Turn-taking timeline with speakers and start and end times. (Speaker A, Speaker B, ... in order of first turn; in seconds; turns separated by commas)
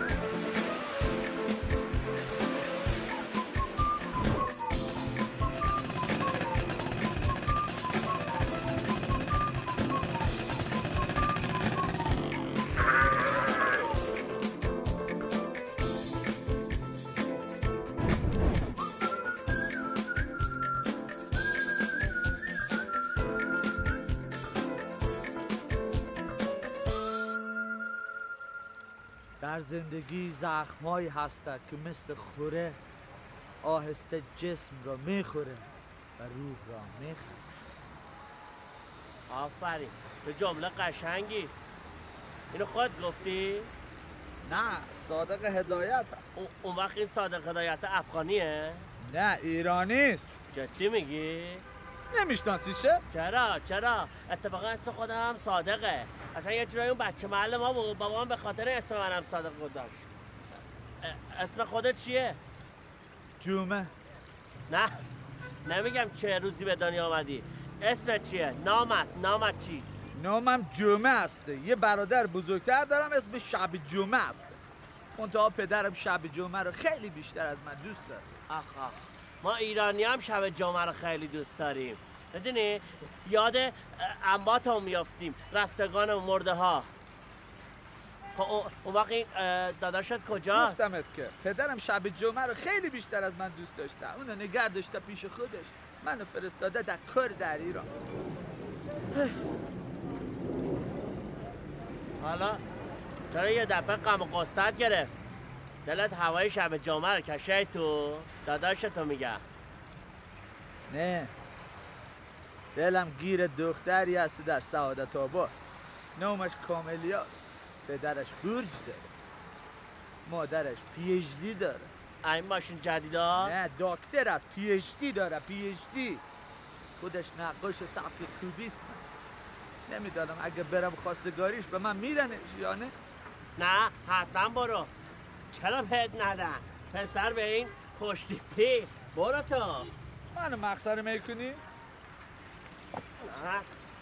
Speaker A: 29.4-32.8, Speaker A: 33.6-35.7, Speaker A: 36.2-37.4, Speaker B: 39.3-41.5, Speaker B: 42.5-43.7, Speaker A: 44.4-46.2, Speaker B: 46.4-48.9, Speaker A: 49.0-50.3, Speaker B: 50.5-51.6, Speaker A: 52.1-53.0, Speaker B: 53.1-60.1, Speaker B: 61.0-62.4, Speaker A: 63.4-63.9, Speaker B: 65.7-69.9, Speaker A: 70.2-74.6, Speaker A: 75.2-78.5, Speaker B: 78.5-86.9, Speaker B: 88.3-90.8, Speaker A: 90.5-97.9, Speaker B: 102.2-102.6, Speaker B: 103.3-105.1, Speaker B: 105.9-109.4, Speaker A: 110.9-111.3, Speaker A: 112.8-115.5, Speaker A: 116.2-119.1, Speaker A: 120.3-121.9, Speaker B: 122.2-123.5, Speaker A: 123.4-126.2, Speaker A: 127.0-129.1, Speaker A: 129.9-132.9, Speaker B: 133.6-134.9, Speaker B: 135.5-139.9, Speaker A: 140.3-141.6, Speaker B: 143.2-143.7